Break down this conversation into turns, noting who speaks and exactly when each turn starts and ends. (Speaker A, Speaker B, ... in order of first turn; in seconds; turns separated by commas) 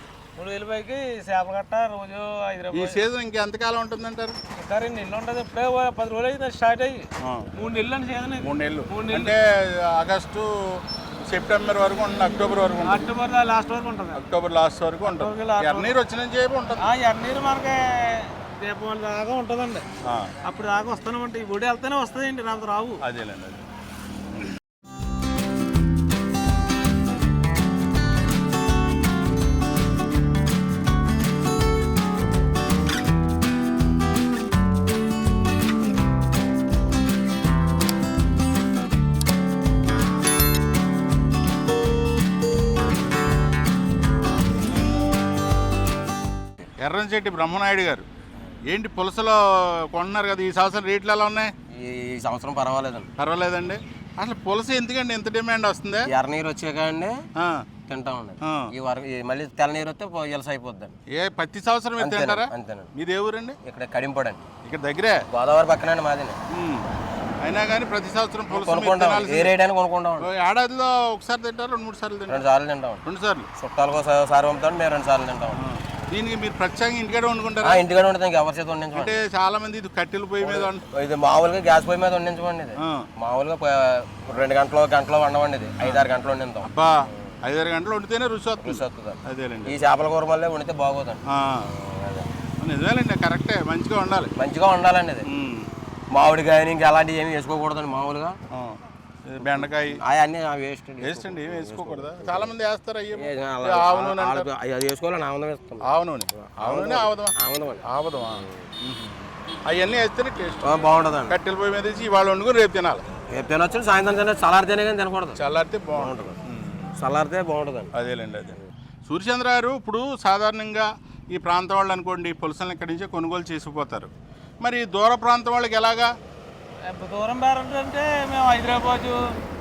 Speaker A: 0.3-3.0, Speaker B: 2.7-4.4, Speaker A: 4.5-9.3, Speaker B: 7.2-7.5, Speaker B: 8.4-13.1, Speaker A: 12.8-14.2, Speaker B: 14.1-16.8, Speaker A: 15.0-15.9, Speaker A: 16.8-19.9, Speaker B: 20.0-20.3, Speaker A: 20.4-23.0, Speaker B: 23.0-23.6, Speaker B: 46.8-48.0, Speaker B: 48.7-51.5, Speaker C: 51.7-53.1, Speaker B: 53.2-56.1, Speaker C: 56.0-57.2, Speaker B: 57.4-57.6, Speaker C: 57.9-60.9, Speaker B: 58.4-58.7, Speaker B: 61.1-63.6, Speaker C: 62.0-62.9, Speaker C: 63.6-64.5, Speaker B: 64.6-65.2, Speaker C: 65.3-66.4, Speaker B: 66.5-66.8, Speaker B: 67.4-69.5, Speaker C: 68.5-70.3, Speaker B: 70.2-72.5, Speaker C: 72.3-73.0, Speaker B: 73.0-73.5, Speaker C: 73.6-75.6, Speaker B: 75.5-77.8, Speaker C: 77.6-79.2, Speaker B: 78.9-80.8, Speaker C: 80.4-86.7, Speaker B: 82.8-83.0, Speaker B: 86.6-89.8, Speaker C: 88.6-92.3, Speaker B: 91.3-91.7, Speaker B: 92.6-94.3, Speaker C: 94.3-95.3, Speaker B: 95.2-95.7, Speaker C: 96.1-98.4, Speaker B: 98.5-100.0, Speaker C: 99.4-102.5, Speaker B: 101.0-104.5, Speaker C: 103.1-105.8, Speaker B: 105.8-113.0, Speaker C: 106.4-107.8, Speaker C: 110.6-111.4, Speaker C: 113.3-115.4, Speaker B: 115.3-116.9, Speaker C: 115.9-116.4, Speaker C: 117.0-117.9, Speaker B: 117.9-124.1, Speaker B: 124.6-126.1, Speaker A: 126.9-129.3